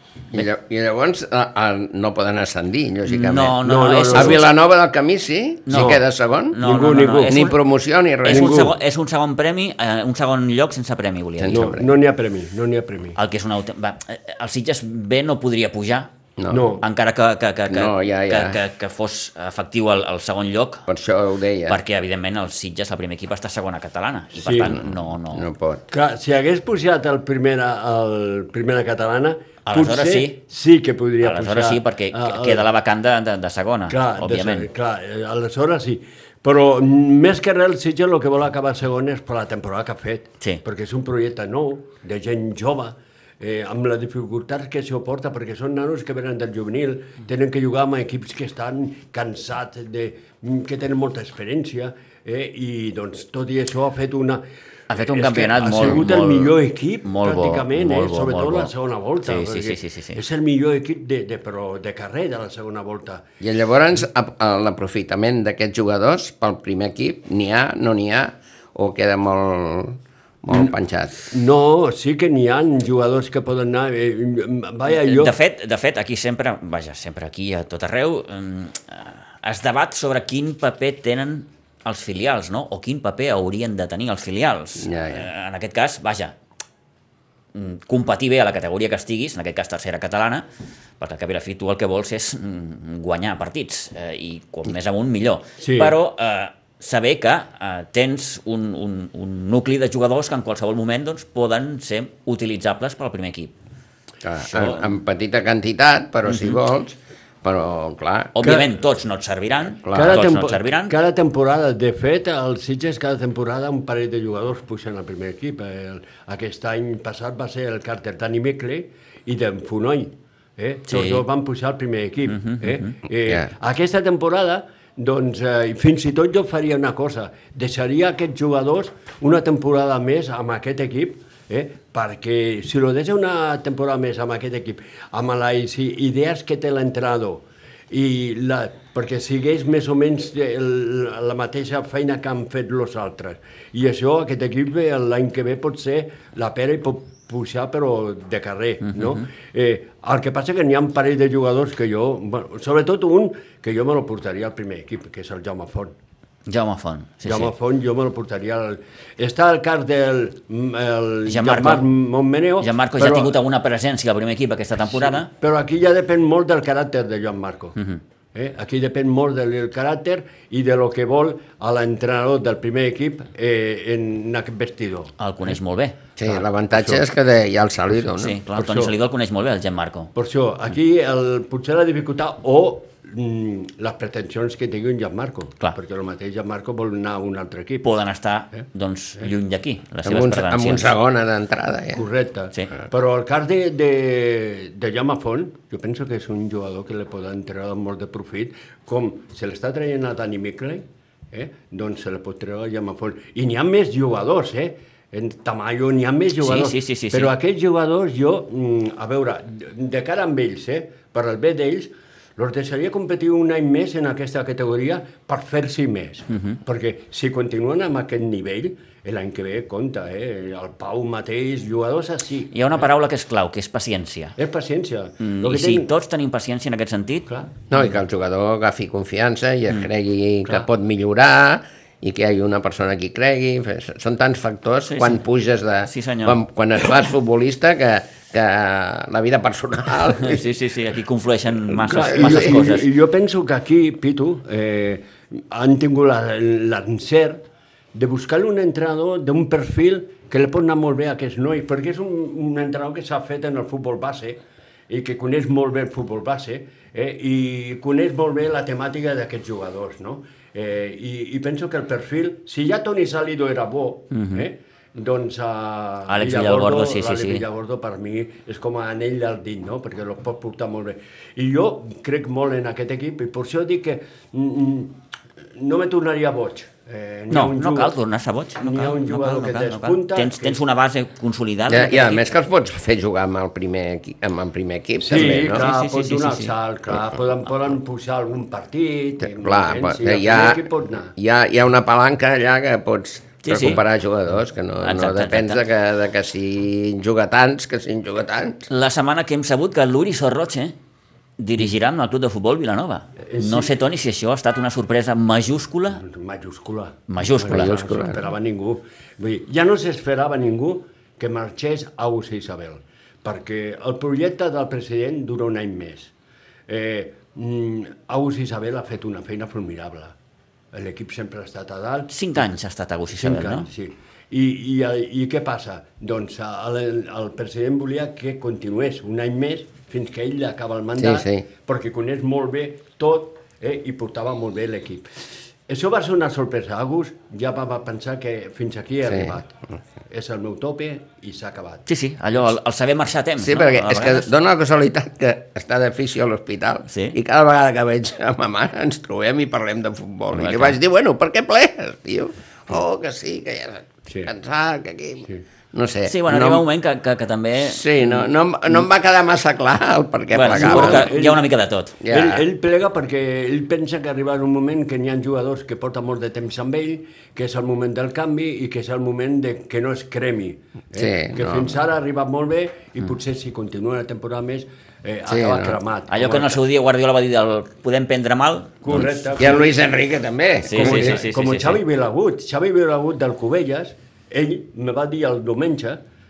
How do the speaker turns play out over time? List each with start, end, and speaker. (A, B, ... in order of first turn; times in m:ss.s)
0:00.3-0:03.6 A
0:03.1-0:04.5 B
0:03.6-0:04.5 C
0:04.1-0:06.6 A
0:05.7-0:06.0 B
0:05.7-0:07.5 C
0:06.5-0:07.5 B
0:07.3-0:08.7 A
0:08.2-0:11.7 B
0:08.3-0:08.7 C
0:11.4-0:11.9 A
0:11.5-0:13.2 C
0:13.2-0:16.1 B
0:16.4-0:16.6 A
0:16.5-0:16.8 C
0:16.8-0:20.9 B
0:17.7-0:18.6 A
0:20.9-0:21.8 A
0:21.7-0:25.4 B
0:24.4-0:24.7 C
0:24.6-0:25.8 A
0:25.9-0:32.7 C
0:29.6-0:30.4 B
0:31.2-0:34.7 B
0:33.9-1:03.2 C
0:54.9-0:58.7 B
0:59.2-1:00.2 B
1:03.4-1:11.3 A
1:11.2-1:15.4 C
1:14.9-1:26.3 B
1:24.8-1:25.3 A
1:27.5-1:30.4 B
1:31.0-1:43.5 B
1:35.6-1:36.0 C
1:44.2-1:48.3 A
1:46.3-1:46.5 B
1:48.3-1:50.9 B
1:48.4-1:48.7 C
1:49.8-1:50.2 A
1:49.9-2:35.9 C
2:00.9-2:01.2 B
2:02.3-2:02.9 B
2:28.8-2:29.2 B
2:36.5-2:37.5 B
2:37.2-2:43.4 C
2:41.3-2:41.9 B
2:42.6-2:45.3 B
2:44.9-2:47.8 C
2:48.3-2:55.1 C
2:55.2-2:56.0 B
2:56.2-2:58.4 A
2:56.3-2:57.0 C
2:58.2-3:00.1 B
2:58.5-2:58.9 C
3:00.1-3:07.9 C
3:07.8-3:10.9 B
3:10.0-3:12.0 A
3:11.9-3:42.8 C
3:26.4-3:27.3 B
3:36.3-3:36.6 B
3:42.5-3:44.4 B
3:44.4-3:45.9 C
3:45.2-3:47.3 B
3:47.3-3:47.5 C
3:47.7-4:00.4 A
3:54.8-3:55.2 B
3:55.8-3:56.4 B
4:00.1-4:02.9 B
4:01.7-4:07.4 C
4:02.0-4:02.5 A
4:07.9-4:35.0 C
4:24.1-4:24.5 B
4:26.1-4:27.4 B
4:35.5-4:38.0 C
4:37.3-4:42.2 B
4:38.6-4:40.6 C
4:41.7-4:45.6 A
4:45.0-4:51.1 C
4:45.1-4:46.5 B
4:49.3-4:50.6 A
4:51.2-4:58.7 A
4:53.4-4:53.8 B
4:54.8-4:55.6 B
4:58.7-5:00.7 B
5:01.4-5:06.0 B
5:03.2-5:03.7 C
5:06.0-5:16.1 C
5:07.1-5:07.8 B
5:07.5-5:08.2 A
5:16.7-5:20.2 C
5:20.7-5:22.1 C
5:22.1-5:23.7 B
5:23.1-5:35.1 C
5:31.0-5:31.4 A
5:35.7-5:39.5 C
5:39.1-5:39.3 A
5:40.1-5:41.8 C
5:41.9-5:44.3 B
5:43.4-5:56.6 A
5:46.9-5:47.2 B
5:50.3-5:50.8 B
5:56.0-5:57.8 B
5:57.6-6:01.1 A
6:00.3-6:02.0 B
6:00.5-6:01.4 C
6:02.0-6:02.4 A
6:02.1-6:16.6 C
6:11.0-6:11.8 A
6:15.3-6:15.8 A
6:16.1-6:19.3 B
6:18.8-6:19.7 C
6:19.4-6:21.2 A
6:20.7-6:21.8 B
6:20.8-6:26.0 C